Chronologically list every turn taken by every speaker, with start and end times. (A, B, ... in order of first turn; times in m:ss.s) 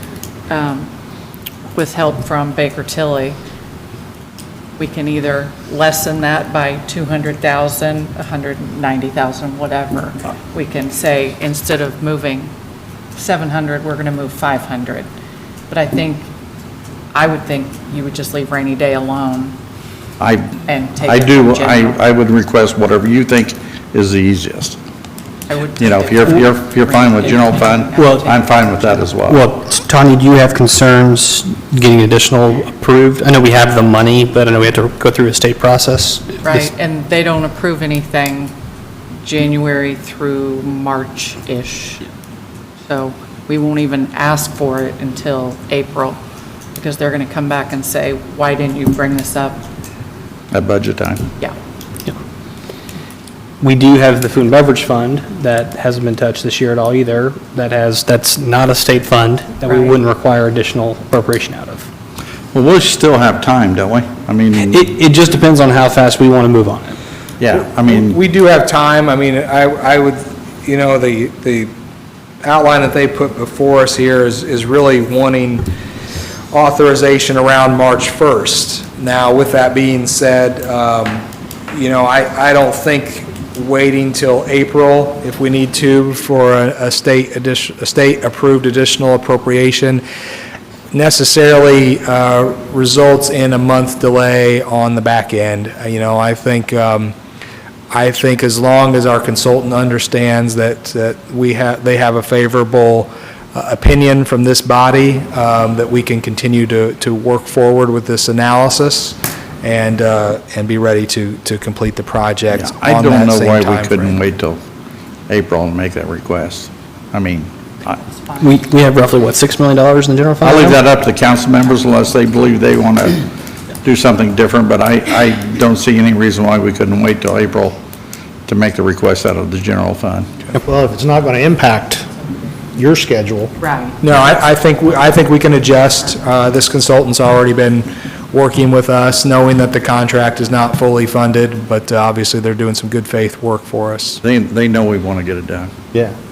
0:00.5-0:00.9 A
0:01.7-0:03.4 A
0:04.8-0:12.5 A
0:13.1-0:15.1 A
0:15.7-0:16.3 A
0:17.1-0:19.6 A
0:20.2-0:24.8 B
0:20.6-0:22.0 A
0:25.5-0:28.7 A
0:25.8-0:29.4 B
0:28.0-0:28.3 C
0:29.2-0:36.7 C
0:36.4-0:38.5 A
0:39.2-0:42.0 A
0:42.8-0:46.2 A
0:46.7-0:49.6 A
0:50.5-0:51.2 B
0:53.6-1:01.9 C
0:59.6-1:00.0 A
1:02.5-1:04.8 B
1:04.6-1:07.0 C
1:07.4-1:08.2 B
1:07.6-1:11.7 D
1:12.4-1:15.7 D
1:16.5-1:30.0 D
1:30.9-1:37.1 D
1:37.9-1:54.2 D
1:52.5-1:54.6 B
1:55.3-1:58.0 B
1:57.9-1:59.0 A
1:58.4-2:00.8 C
2:00.4-2:03.2 B
2:03.8-2:07.8 B
2:08.5-2:10.3 B
2:10.5-2:12.1 E
2:12.7-2:13.5 E
2:13.6-2:14.0 A
2:14.0-2:24.2 D
2:24.2-2:25.7 B